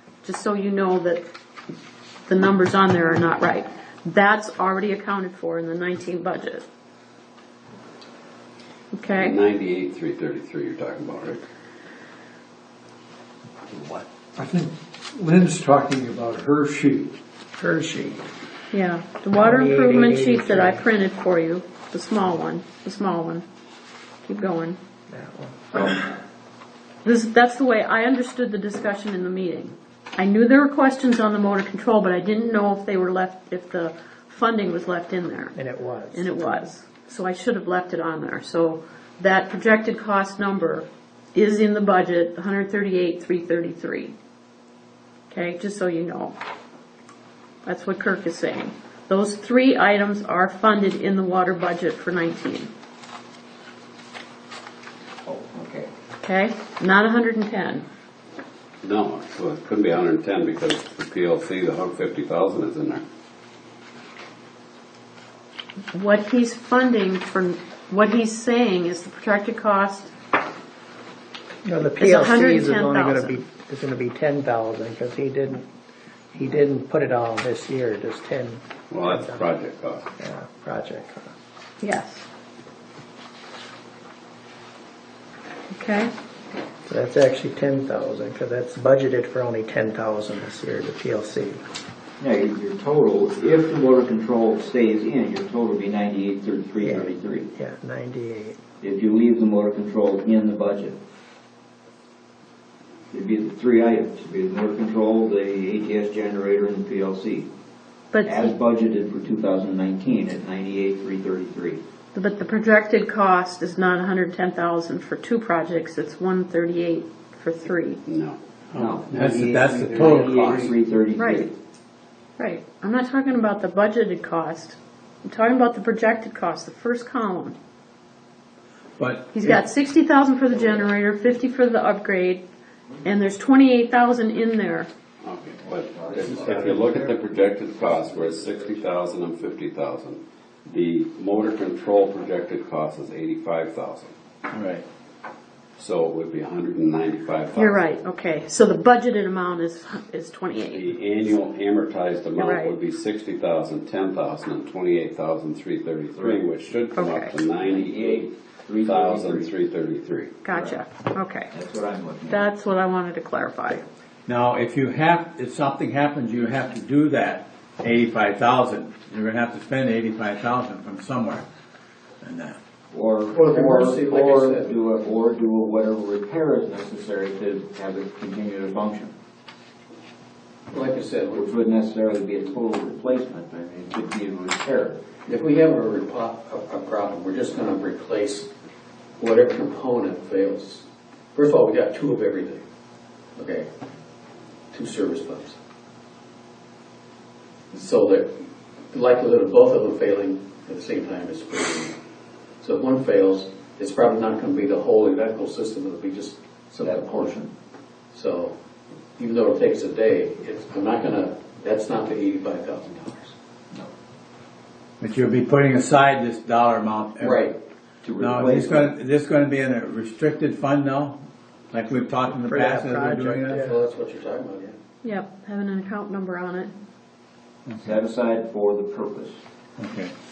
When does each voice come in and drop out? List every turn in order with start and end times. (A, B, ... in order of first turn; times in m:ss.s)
0:00.2-0:01.2 A
0:02.3-0:06.6 A
0:08.9-0:09.4 A
0:09.1-0:11.4 B
0:14.4-0:17.1 C
0:17.6-0:18.2 D
0:18.7-0:23.4 A
0:19.4-0:20.8 D
0:24.2-0:24.8 A
0:25.1-0:26.0 D
0:27.0-0:35.6 A
0:35.6-0:36.6 D
0:36.1-0:44.1 A
0:45.3-0:46.4 A
0:47.6-0:52.7 A
0:55.3-0:55.9 E
0:56.2-0:57.9 A
0:58.8-1:03.0 B
1:05.9-1:10.1 A
1:11.6-1:15.7 D
1:12.0-1:13.4 A
1:16.3-1:19.4 D
1:18.9-1:20.1 B
1:20.2-1:21.3 D
1:21.8-1:22.3 A
1:25.7-1:26.1 A
1:26.9-1:31.6 D
1:32.2-1:37.5 E
1:36.8-1:38.6 D
1:38.8-1:41.0 E
1:43.1-1:47.5 E
1:48.1-1:48.5 A
1:48.2-1:51.8 E
1:52.1-1:58.0 A
1:58.1-1:58.4 B
1:58.7-2:00.7 F
1:58.7-2:01.6 E
2:01.2-2:01.5 A
2:02.4-2:07.6 A
2:09.0-2:09.6 F
2:09.3-2:12.4 A
2:13.0-2:14.9 A
2:15.2-2:24.1 B
2:15.7-2:16.8 E
2:16.3-2:16.9 F
2:18.0-2:18.7 E
2:24.5-2:24.8 F
2:25.8-2:27.9 B
2:27.6-2:30.8 A
2:30.7-2:40.8 B
2:32.4-2:32.8 A
2:36.2-2:36.5 E
2:37.0-2:37.4 A
2:37.6-2:39.5 E
2:40.4-2:41.5 A
2:41.5-2:42.5 E
2:42.3-2:43.8 A
2:44.3-2:51.4 F
2:52.2-2:52.6 F
2:52.9-2:59.1 E
2:53.3-2:54.7 G
3:00.7-3:01.4 G
3:01.3-3:05.0 E
3:05.3-3:08.5 G
3:09.2-3:12.6 G
3:13.4-3:13.7 G
3:14.7-3:15.6 G
3:17.7-3:22.0 G
3:22.6-3:27.4 G
3:26.8-3:27.5 E
3:28.1-3:28.6 G
3:29.2-3:33.4 G
3:35.0-3:37.4 F
3:37.2-3:37.6 G
3:38.0-3:39.0 E
3:38.2-3:41.2 F
3:41.7-3:43.6 F
3:42.2-3:43.8 D
3:43.6-3:44.8 G
3:45.0-3:46.7 A
3:47.8-3:49.4 E
3:49.8-3:50.1 F